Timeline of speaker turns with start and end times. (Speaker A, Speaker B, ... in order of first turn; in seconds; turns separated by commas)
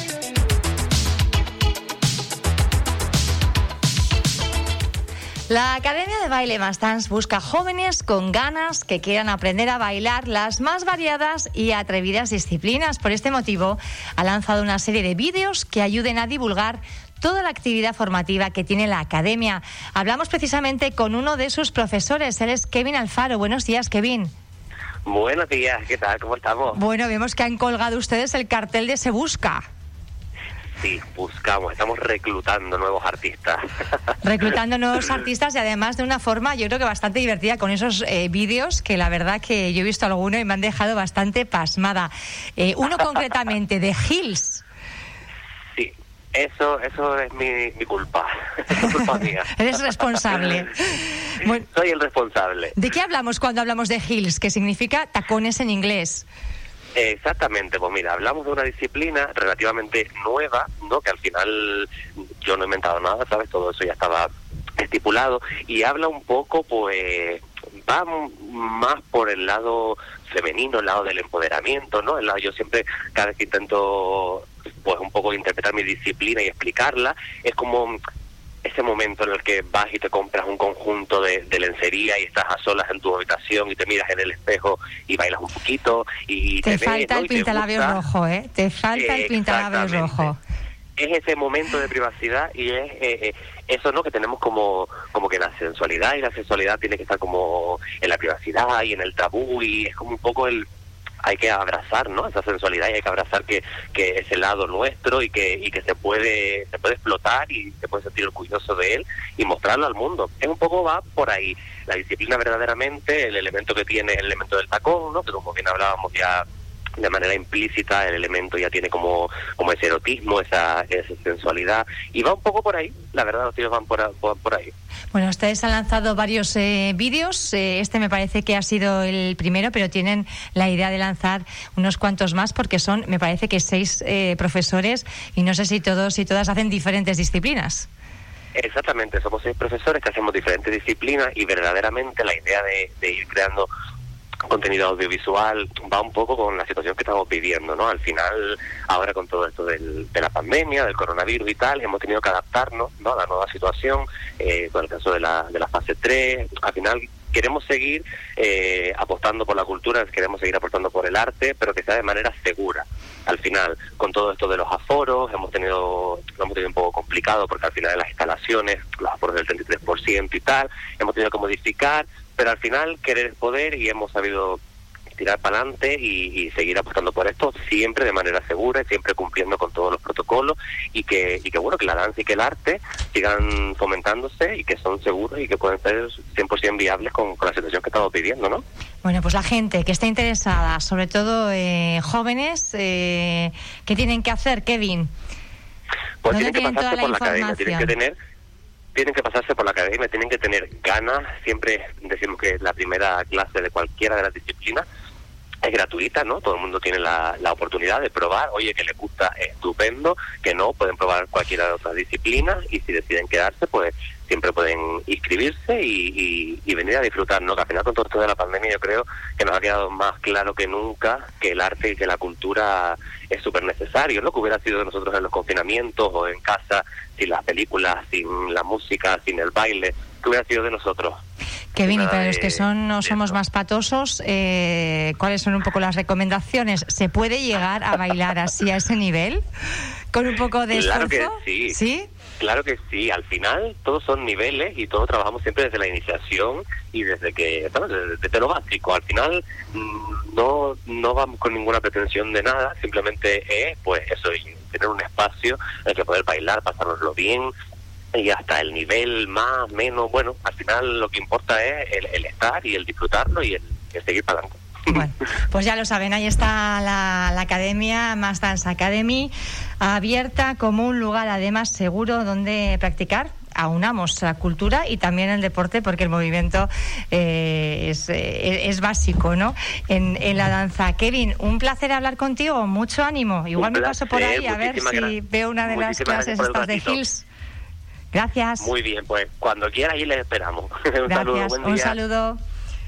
Speaker A: 5.5-24.3, Speaker B: 25.1-26.8, Speaker A: 26.7-29.6, Speaker B: 30.8-33.6, Speaker A: 34.2-44.6, Speaker B: 45.7-50.6, Speaker A: 48.7-51.7, Speaker B: 51.4-52.7, Speaker A: 52.7-56.2, Speaker B: 56.9-61.9, Speaker B: 62.4-78.0, Speaker B: 78.6-88.0, Speaker A: 86.6-90.4, Speaker B: 88.9-90.3, Speaker B: 91.0-100.6, Speaker B: 101.2-116.4, Speaker B: 117.0-124.7, Speaker A: 125.1-137.9, Speaker B: 138.5-143.7, Speaker B: 144.5-174.6, Speaker B: 175.2-188.6, Speaker A: 189.0-195.1, Speaker B: 196.2-198.1, Speaker A: 196.3-197.9, Speaker B: 198.9-204.8, Speaker B: 205.6-231.2, Speaker A: 231.7-239.4, Speaker B: 231.8-233.4, Speaker A: 240.1-242.1, Speaker B: 240.7-241.8, Speaker B: 242.4-257.5, Speaker B: 258.1-265.0, Speaker A: 264.9-287.2, Speaker B: 283.5-287.0, Speaker A: 288.1-288.7, Speaker B: 288.6-292.0, Speaker A: 291.1-292.4